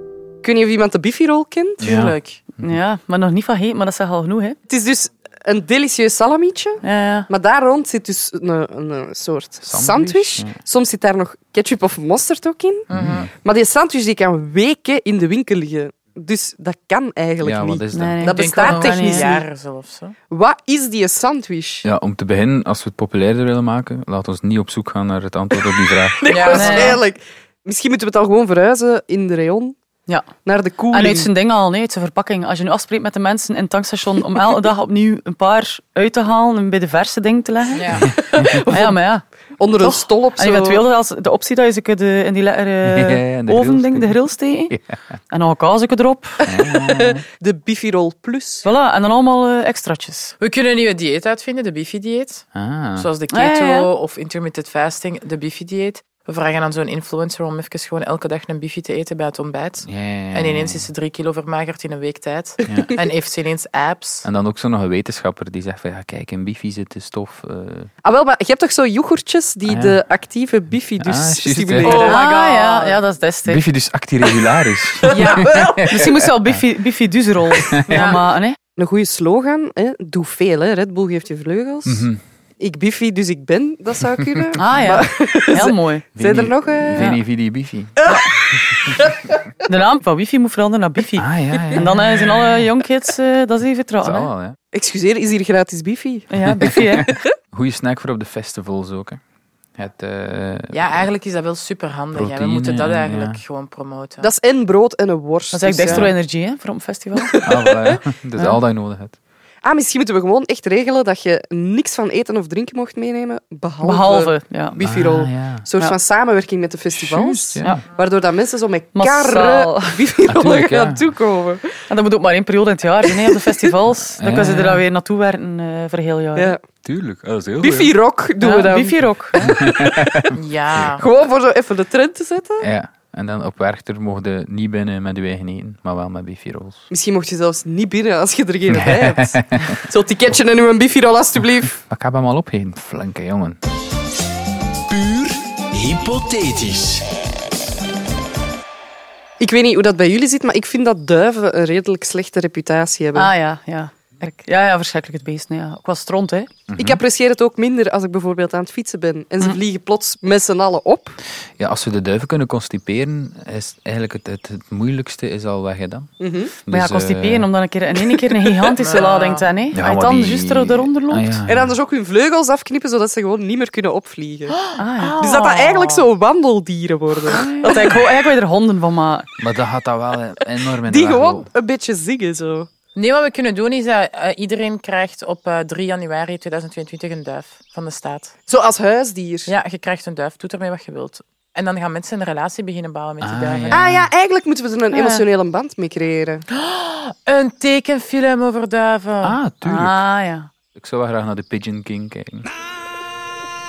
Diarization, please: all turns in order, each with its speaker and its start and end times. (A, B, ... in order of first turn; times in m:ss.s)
0:00.4-0:01.9 A
0:01.8-0:02.4 B
0:01.8-0:02.2 C
0:02.6-0:04.6 D
0:04.7-0:19.4 A
0:06.8-0:07.3 D
0:09.6-0:10.6 C
0:12.9-0:13.3 C
0:12.9-0:13.3 B
0:17.4-0:18.3 C
0:17.9-0:19.4 D
0:18.2-0:20.1 B
0:20.3-0:21.8 A
0:21.8-0:27.0 C
0:26.2-0:29.8 A
0:26.3-0:26.7 B
0:26.5-0:27.0 D
0:30.4-0:31.3 A
0:30.9-0:38.1 D
0:37.7-0:38.1 B
0:38.1-0:38.9 A
0:38.6-0:39.2 D
0:39.6-0:40.8 A
0:39.8-0:44.8 D
0:42.8-0:45.0 C
0:45.3-0:46.4 D
0:46.4-0:47.2 C
0:47.0-0:48.6 A
0:48.6-0:50.3 D
0:50.4-0:52.4 B
0:52.5-0:53.1 C
0:53.0-1:04.2 B
0:53.3-0:53.9 D
0:59.8-1:00.9 C
1:02.7-1:03.0 C
1:04.2-1:07.9 C
1:08.0-1:12.2 A
1:09.6-1:10.0 C
1:11.0-1:12.1 C
1:11.8-1:13.0 B
1:11.8-1:13.6 D
1:13.4-1:16.6 C
1:15.1-1:15.6 B
1:15.5-1:15.8 A
1:15.9-1:18.6 D
1:17.7-1:18.1 C
1:17.9-1:18.2 B
1:18.8-1:22.1 A
1:21.8-1:22.2 C
1:22.6-1:27.1 A
1:24.6-1:26.0 D
1:26.2-1:28.0 C
1:28.9-1:29.2 A
1:29.6-1:34.3 D
1:31.2-1:31.9 C
1:34.0-1:34.6 C
1:34.7-1:36.3 A
1:36.3-1:37.1 D
1:36.6-1:39.2 C
1:39.8-1:41.1 C
1:40.7-1:44.3 B
1:42.1-1:43.4 C
1:44.2-1:46.1 A
1:45.5-1:47.4 D
1:47.4-1:49.2 C
1:49.6-2:01.8 A
1:53.8-1:54.8 D
1:54.8-1:55.6 C
1:57.0-1:57.8 C
1:58.9-2:00.0 D
2:00.3-2:01.1 C
2:01.9-2:06.6 D
2:04.2-2:04.8 C
2:06.8-2:08.0 C
2:07.6-2:09.5 A
2:08.4-2:09.4 D
2:09.4-2:10.3 C
2:10.3-2:11.0 B
2:10.9-2:12.7 A
2:12.6-2:16.9 C
2:16.9-2:21.8 A
2:18.7-2:19.7 C
2:21.7-2:23.6 C
2:25.0-2:27.0 E
2:29.4-2:33.3 A
2:33.1-2:36.5 D
2:36.7-2:37.0 C
2:36.8-2:41.2 A
2:41.6-2:46.1 C
2:46.2-2:46.5 A
2:46.6-2:47.5 C
2:46.7-2:51.4 D
2:48.7-2:49.5 B
2:49.7-2:51.8 C
2:51.5-2:54.6 A
2:54.5-2:56.1 B
2:54.8-2:55.4 D
2:55.2-2:57.9 A
2:57.3-2:57.7 B
2:57.6-2:59.3 D
2:59.4-3:01.5 C
3:00.8-3:02.7 A
3:02.9-3:08.3 B
3:08.5-3:09.5 A
3:09.5-3:13.9 B
3:13.2-3:14.1 C
3:13.7-3:16.4 A
3:14.9-3:15.2 D
3:16.5-3:19.4 B
3:19.2-3:20.0 C
3:19.6-3:20.5 D
3:20.7-3:22.5 C